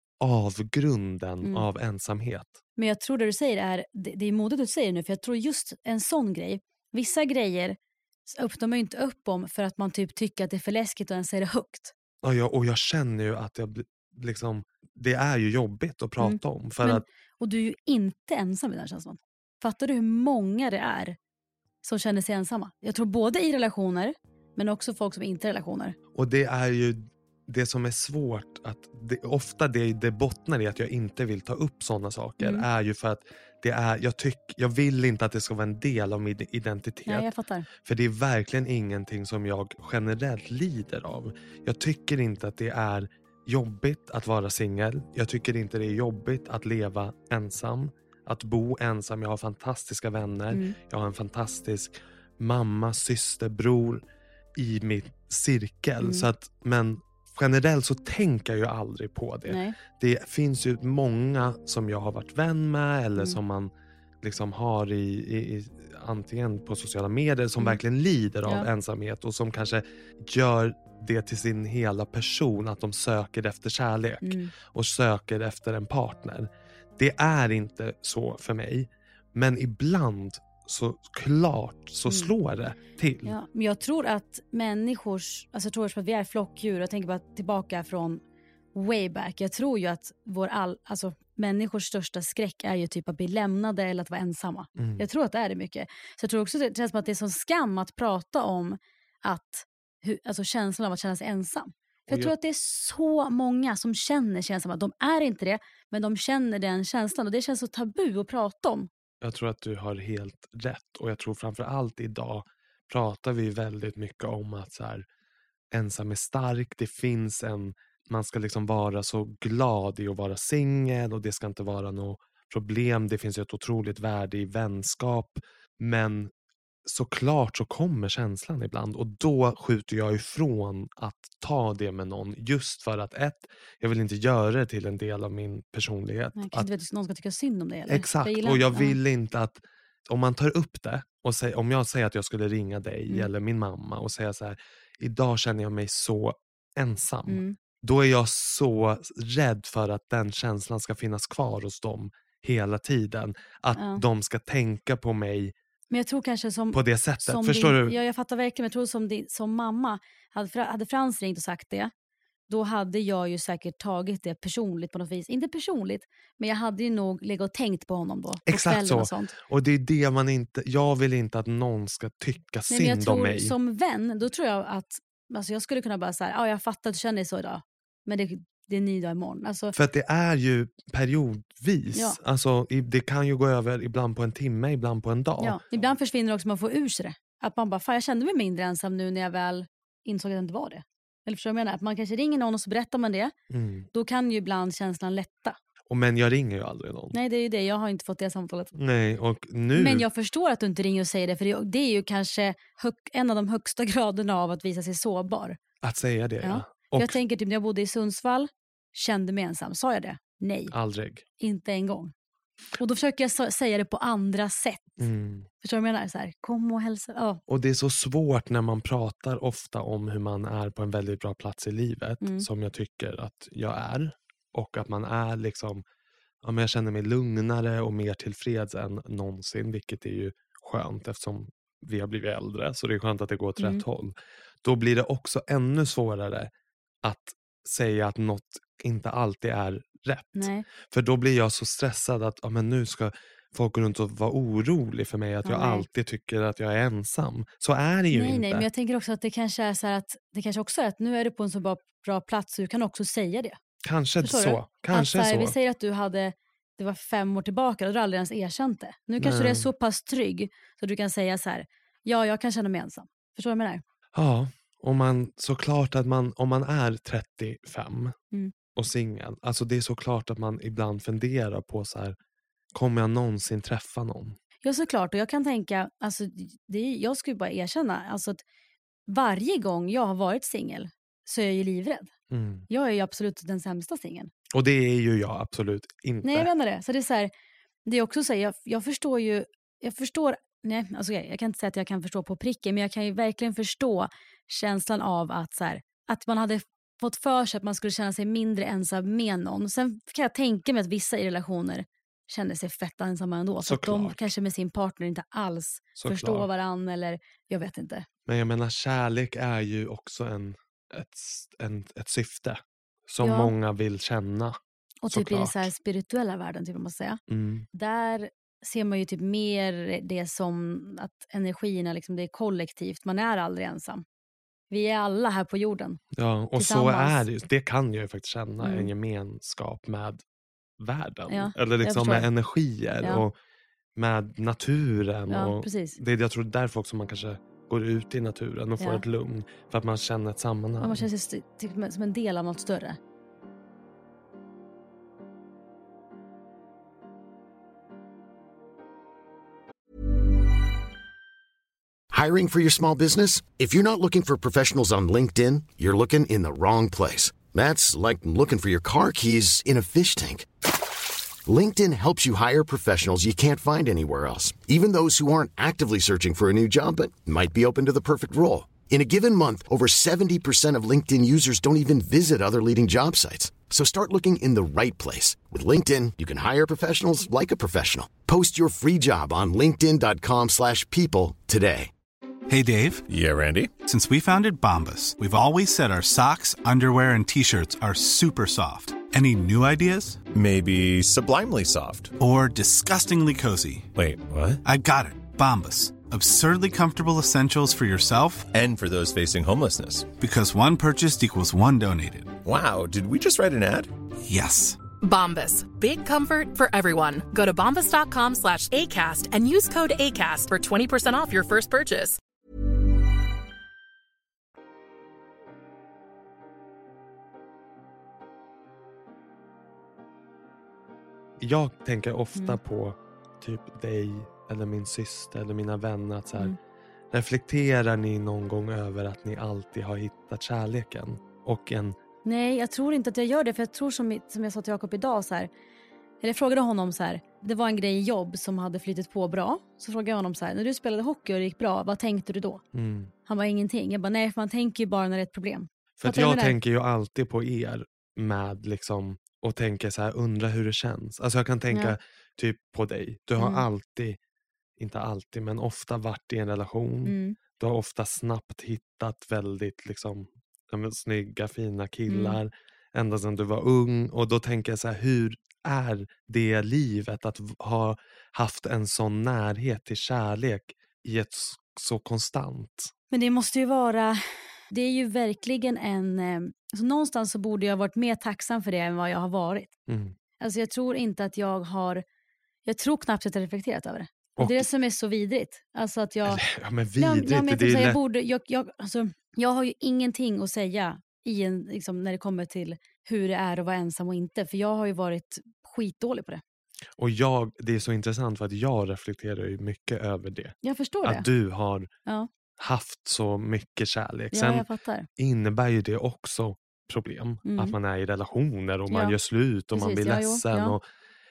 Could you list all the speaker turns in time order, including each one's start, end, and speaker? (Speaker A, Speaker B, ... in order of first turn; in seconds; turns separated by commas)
Speaker A: 0.2-2.6, Speaker B: 2.8-11.9, Speaker A: 12.2-17.0, Speaker B: 16.2-21.1, Speaker B: 21.8-25.9, Speaker A: 26.1-37.3, Speaker B: 32.4-32.6, Speaker B: 37.0-37.7, Speaker A: 37.8-54.0, Speaker B: 50.5-50.8, Speaker A: 54.5-63.7, Speaker B: 56.0-56.3, Speaker B: 59.5-59.8, Speaker A: 64.2-83.3, Speaker B: 74.2-74.5, Speaker B: 83.2-88.2, Speaker B: 88.7-108.9, Speaker A: 94.8-95.0, Speaker A: 109.2-115.0, Speaker A: 115.7-126.3, Speaker A: 126.8-136.7, Speaker B: 136.3-138.9, Speaker A: 137.9-155.5, Speaker B: 147.3-147.6, Speaker B: 153.7-154.0, Speaker B: 155.9-161.9, Speaker A: 156.7-158.0, Speaker B: 162.5-169.3, Speaker A: 168.5-173.5, Speaker B: 172.7-179.7, Speaker A: 179.7-185.6, Speaker B: 185.4-193.3, Speaker A: 193.5-193.9, Speaker B: 193.9-195.6, Speaker A: 195.9-197.2, Speaker B: 197.1-198.7, Speaker A: 198.7-200.1, Speaker B: 199.7-205.6, Speaker A: 205.8-207.2, Speaker B: 206.4-210.7, Speaker A: 210.7-211.2, Speaker B: 211.4-212.1, Speaker B: 212.8-215.0, Speaker A: 215.0-215.5, Speaker B: 215.6-217.4, Speaker A: 217.5-225.8, Speaker B: 222.2-222.5, Speaker A: 226.4-236.5, Speaker B: 233.6-233.8, Speaker A: 237.0-248.7, Speaker B: 240.3-240.6, Speaker B: 245.4-245.8, Speaker B: 248.1-253.6, Speaker A: 253.8-255.5, Speaker B: 254.2-263.8, Speaker A: 259.2-259.7, Speaker A: 264.1-268.1, Speaker A: 268.7-272.1, Speaker A: 272.7-274.4, Speaker B: 274.6-278.4, Speaker B: 279.1-282.1, Speaker A: 282.3-282.7, Speaker B: 282.7-284.3, Speaker A: 284.5-286.5, Speaker B: 286.2-287.3, Speaker B: 287.8-308.1, Speaker A: 303.6-304.3, Speaker A: 305.9-306.5, Speaker A: 308.3-314.6, Speaker B: 313.2-313.5, Speaker B: 315.0-317.2, Speaker A: 315.1-315.7, Speaker A: 317.3-317.7, Speaker B: 317.7-324.0, Speaker B: 324.7-326.0, Speaker A: 326.1-330.2, Speaker B: 326.6-327.2, Speaker B: 328.6-328.9, Speaker A: 330.8-333.3, Speaker B: 331.3-332.3, Speaker A: 333.9-341.1, Speaker B: 335.3-336.0, Speaker B: 340.8-343.0, Speaker C: 352.1-360.5, Speaker C: 361.4-381.9, Speaker D: 382.5-383.1, Speaker E: 383.1-383.7, Speaker D: 383.8-390.2, Speaker E: 390.3-392.1, Speaker D: 392.2-393.9, Speaker E: 393.9-394.6, Speaker D: 394.6-398.5, Speaker E: 398.5-400.1, Speaker D: 400.1-402.4, Speaker E: 402.4-403.9, Speaker D: 404.2-404.8, Speaker F: 405.0-412.2, Speaker A: 421.4-426.6, Speaker A: 427.1-431.9, Speaker B: 432.2-435.5, Speaker B: 436.2-442.6, Speaker A: 442.7-443.1, Speaker B: 443.2-446.6, Speaker A: 446.0-454.2, Speaker B: 453.4-453.6, Speaker A: 454.8-472.9, Speaker B: 457.1-457.4, Speaker B: 462.1-462.4, Speaker B: 473.1-479.7, Speaker A: 479.9-480.1, Speaker B: 480.4-482.0, Speaker B: 482.6-486.4, Speaker A: 484.4-484.7, Speaker A: 486.3-488.0, Speaker B: 487.0-496.4, Speaker A: 497.0-501.9, Speaker B: 500.6-501.2, Speaker A: 502.6-504.7, Speaker B: 504.3-505.1, Speaker A: 505.2-510.8, Speaker B: 507.4-507.7, Speaker B: 508.9-509.1, Speaker B: 509.7-510.8